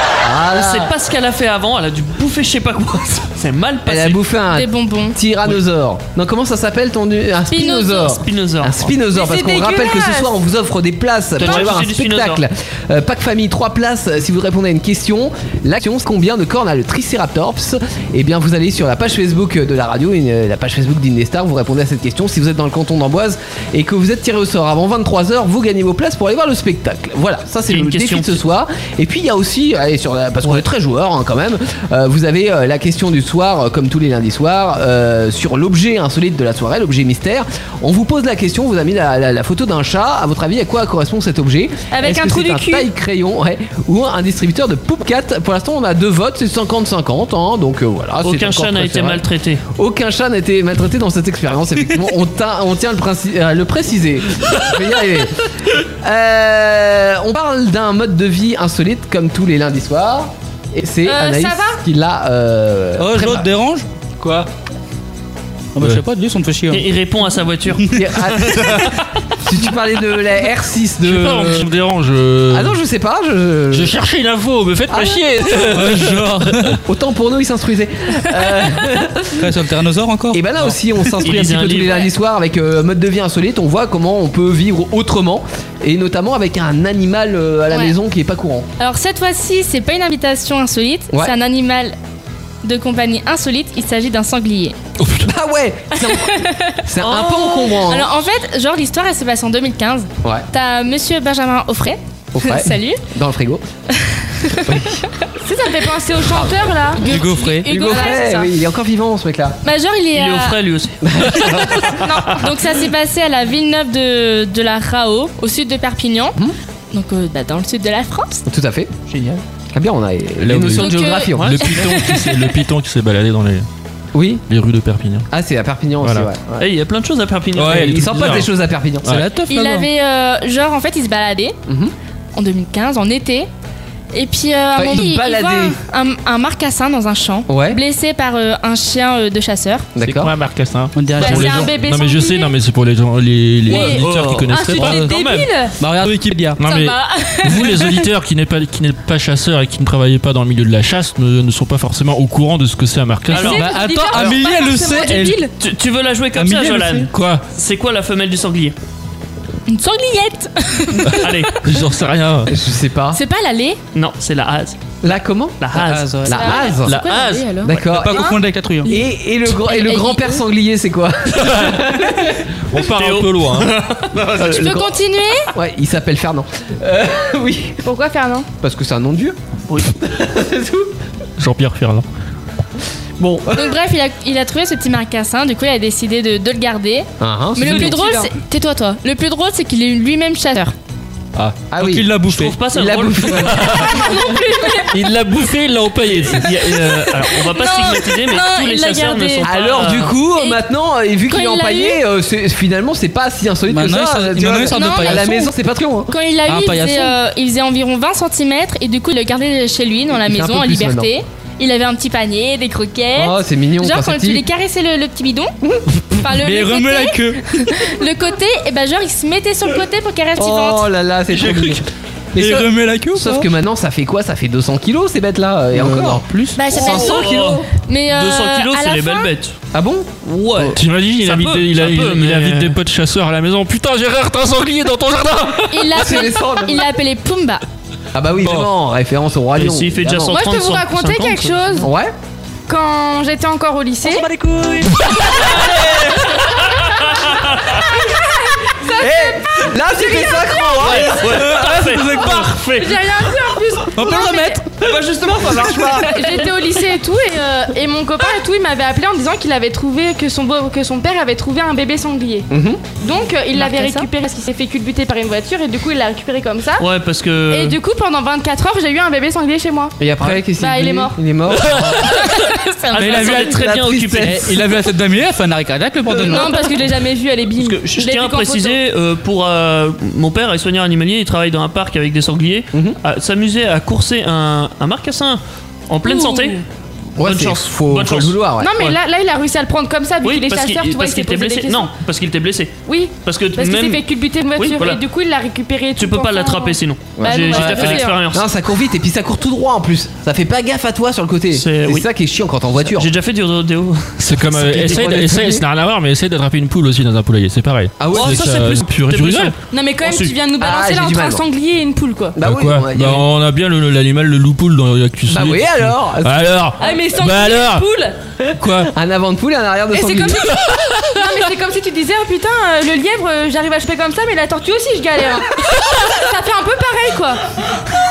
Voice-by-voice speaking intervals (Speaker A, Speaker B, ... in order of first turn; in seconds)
Speaker A: 0.2-0.9, 3.9-49.2, 49.8-63.5, 64.2-64.5, 67.9-71.7, 72.5-73.9, 74.9-76.0, 76.8-79.5, 80.3-88.7, 95.2-98.1, 102.3-103.6, 104.7-105.0, 107.7-109.6, 111.0-111.8, 118.5-119.0, 119.7-121.6, 124.1-124.4, 125.3-126.7, 127.6-129.3, 131.7-131.9, 134.8-135.8, 137.5-137.8, 140.0-140.3, 162.5-163.2, 165.0-165.7, 166.2-167.0, 167.6-172.4, 174.3-175.0, 175.5-177.8, 178.6-179.4, 180.0-180.9, 183.2-183.8, 187.2-188.0, 191.4-194.3, 199.4-206.2, 210.1-211.1, 213.2-214.4, 220.4-227.7, 229.7-230.7, 235.9-236.9, 238.1-240.4, 241.8-242.1, 245.4-246.4, 248.9-251.8, 254.8-256.1, 262.5-262.8, 270.0-272.0, 273.1-274.6, 287.2-288.7, 297.2-303.1, 304.5-305.6, 308.0-308.5, 310.6-311.4, 312.4-313.3, 315.3-316.4, 318.8-320.6
Speaker B: 0.5-4.2, 8.2-8.9, 11.4-12.4, 27.7-28.4, 48.2-49.6, 66.7-67.9, 81.2-82.1, 97.0-97.8, 110.1-111.6, 121.3-121.8, 126.6-128.1, 143.7-145.5, 153.3-153.7, 155.6-158.8, 161.2-161.6, 163.9-165.0, 165.6-166.4, 172.8-174.8, 192.3-193.5, 196.3-200.2, 226.7-229.6, 230.2-232.8, 239.6-241.8, 246.7-247.8, 250.8-253.1, 254.8-256.0, 266.8-267.8, 272.9-274.5, 277.6-286.6, 287.2-289.0, 290.2-294.0, 294.6-295.0, 296.0-298.5, 301.5-302.1, 302.9-305.1, 308.1-310.4
Speaker C: 4.5-5.2, 7.5-8.2, 87.7-88.0, 88.8-92.0, 92.6-94.8, 96.0-96.8, 97.8-103.0, 104.4-104.8, 107.0-108.5, 109.6-110.6, 111.6-116.4, 116.9-118.4, 120.7-122.6, 129.4-131.6, 132.3-133.5, 134.1-139.9, 146.6-148.1, 159.7-161.4, 163.1-163.8, 166.3-167.8, 168.9-170.4, 174.4-175.5, 183.5-190.8, 194.1-195.0, 196.7-199.5, 200.2-200.6, 201.3-202.0, 204.7-205.5, 206.1-215.5, 216.2-220.9, 226.6-229.3, 235.7-237.6, 263.6-264.1, 271.9-273.4, 297.6-297.9
Speaker D: 9.1-10.3, 41.9-42.9, 61.0-61.8, 105.4-107.0, 141.2-142.5, 143.7-145.7, 153.3-155.5, 177.8-178.5, 188.0-188.3, 194.1-194.8, 240.3-241.9, 242.7-244.2, 248.0-250.7, 252.8-254.6, 256.0-262.5, 263.0-266.9, 267.5-269.9, 270.6-271.2, 276.3-278.8, 286.1-286.5, 288.6-291.9, 292.9-298.2, 309.7-312.4, 316.8-318.1, 319.9-327.4
Speaker E: 63.0-63.9, 65.8-66.9, 67.7-68.7, 75.7-76.8, 79.3-80.4, 81.0-81.2, 107.0-107.7, 119.1-119.4, 129.1-129.9, 140.9-141.7, 145.8-146.6, 153.5-155.5, 156.4-157.1, 165.7-166.3, 167.8-168.9, 191.8-192.6, 203.7-205.4, 206.5-207.1, 216.3-217.5, 222.4-223.5, 225.7-226.6, 244.6-245.0, 251.4-252.6, 254.0-254.6, 273.0-273.3, 274.2-276.5
Speaker F: 71.0-72.8, 73.7-76.8, 95.0-95.3, 120.4-123.7, 124.5-125.3, 126.0-126.3, 127.6-128.5, 129.0-129.4, 140.0-145.0, 146.6-153.6, 157.1-157.4, 161.6-162.5, 166.9-167.5, 171.4-171.8, 172.7-173.7, 181.4-182.0, 193.5-193.8, 194.9-196.5, 221.3-221.8, 230.7-235.9, 304.2-309.5, 312.4-317.9, 318.6-318.9